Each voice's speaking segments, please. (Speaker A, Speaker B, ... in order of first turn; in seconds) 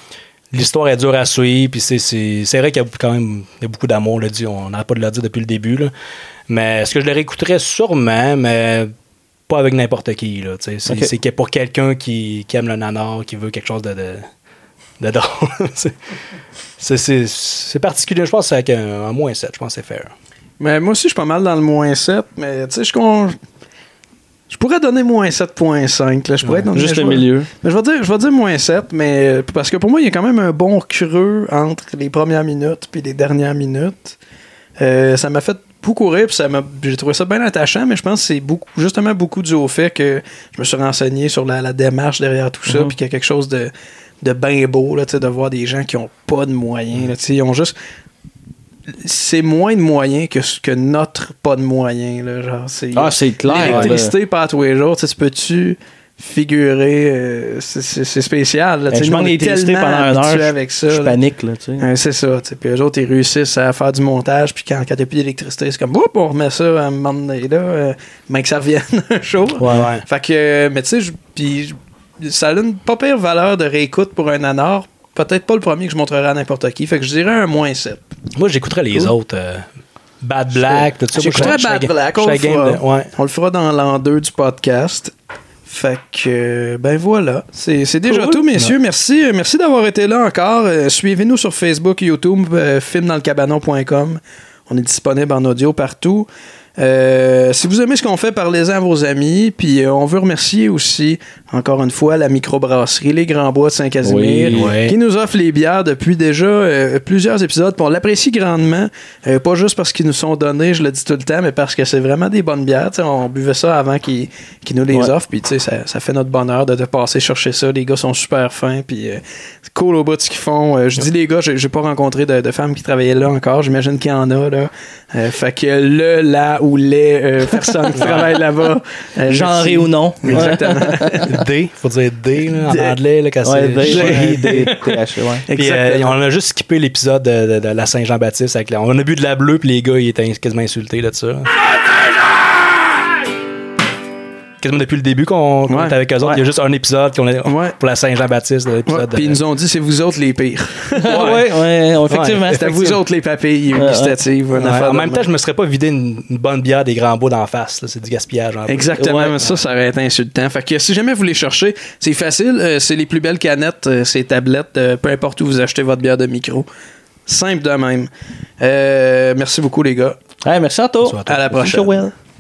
Speaker A: 0.5-5.9, 6.5-8.9, 9.5-14.3, 15.0-15.9, 16.8-20.1, 53.6-54.0, 69.6-70.0, 78.4-79.7, 80.2-83.1, 104.5-105.0, 128.0-128.3, 130.3-130.6, 131.3-134.7, 135.5-141.5, 144.6-149.4, 151.1-151.4, 152.1-153.0, 154.6-159.3, 171.0-171.4
Speaker B: 10.9-11.1, 26.7-27.5, 42.7-42.9, 52.9-54.1, 58.9-61.9, 69.6-69.9, 104.0-104.7, 128.0-128.3, 129.3-131.2, 133.4-135.4, 151.0-152.6, 153.8-154.2, 159.0-159.3, 170.4-172.1
Speaker C: 20.6-23.4, 24.5-34.2, 34.8-47.7, 49.0-61.1, 61.8-78.0, 80.6-85.1, 85.7-131.2, 132.7-132.9, 133.9-134.8, 135.5-136.2, 145.7-146.0, 147.4-147.8, 148.9-151.4, 152.5-155.3, 158.7-166.7, 167.3-170.2, 171.3-172.0